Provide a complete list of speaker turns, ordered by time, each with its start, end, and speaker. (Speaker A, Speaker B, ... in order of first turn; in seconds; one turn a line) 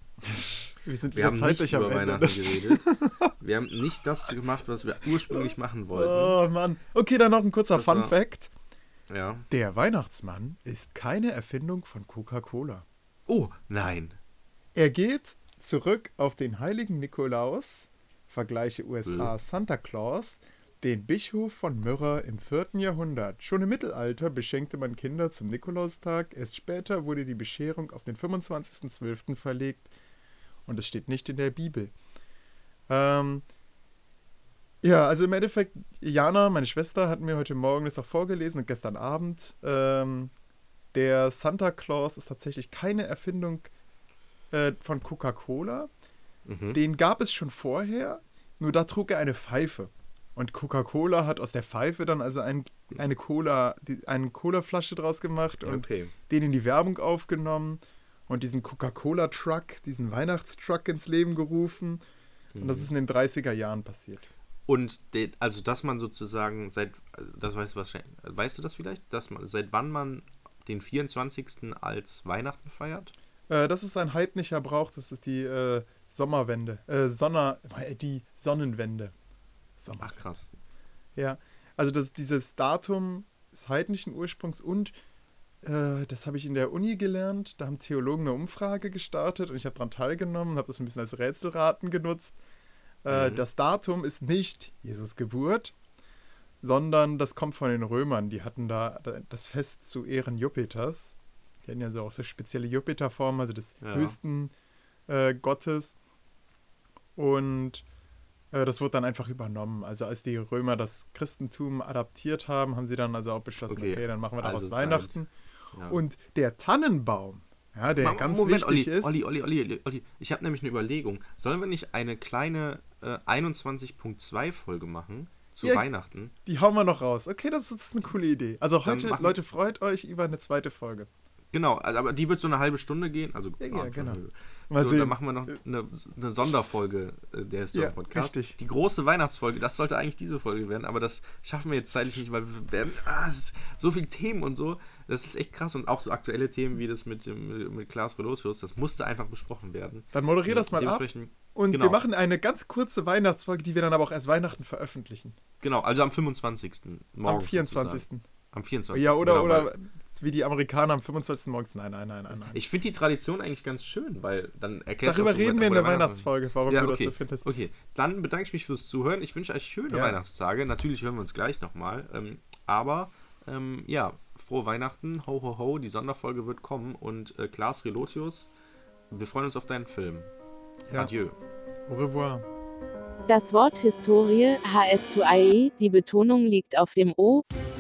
Speaker A: 0.3-3.3
Speaker B: 1.1-6.4
Speaker A: 5.3-8.5
Speaker B: 7.8-8.1
Speaker B: 9.1-9.5
Speaker A: 9.5-12.8
Speaker B: 13.3-14.2
Speaker A: 14.8-29.9
Speaker B: 19.1-19.3
Speaker A: 30.7-31.9
Speaker A: 32.9-33.4
Speaker A: 34.8-40.3
Speaker A: 40.9-43.7
Speaker A: 44.5-45.9
Speaker B: 46.5-46.8
Speaker A: 46.7-62.0
Speaker B: 55.6-56.1
Speaker B: 62.5-62.9
Speaker A: 62.6-64.3
Speaker B: 64.7-73.1
Speaker A: 73.5-79.1
Speaker A: 79.8-80.2
Speaker B: 80.0-80.5
Speaker A: 81.2-85.0
Speaker A: 85.6-92.4
Speaker A: 93.0-95.8
Speaker B: 93.1-93.4
Speaker A: 96.6-104.5
Speaker B: 103.8-104.2
Speaker A: 105.1-106.0
Speaker A: 107.2-107.8
Speaker A: 108.5-115.3
Speaker B: 113.7-115.2
Speaker B: 115.7-116.0
Speaker A: 115.9-119.1
Speaker B: 118.0-126.3
Speaker A: 126.5-131.1
Speaker B: 128.8-129.4
Speaker B: 131.5-152.0
Speaker A: 133.6-134.2
Speaker A: 134.7-135.5
Speaker A: 137.7-138.6
Speaker A: 150.1-155.4
Speaker B: 155.6-159.7
Speaker A: 157.2-158.2
Speaker A: 158.9-162.6
Speaker B: 162.5-178.5
Speaker A: 165.0-167.5
Speaker A: 169.9-170.2
Speaker B: 179.1-180.3
Speaker B: 180.9-181.3
Speaker A: 181.9-182.4
Speaker C: 183.3-187.4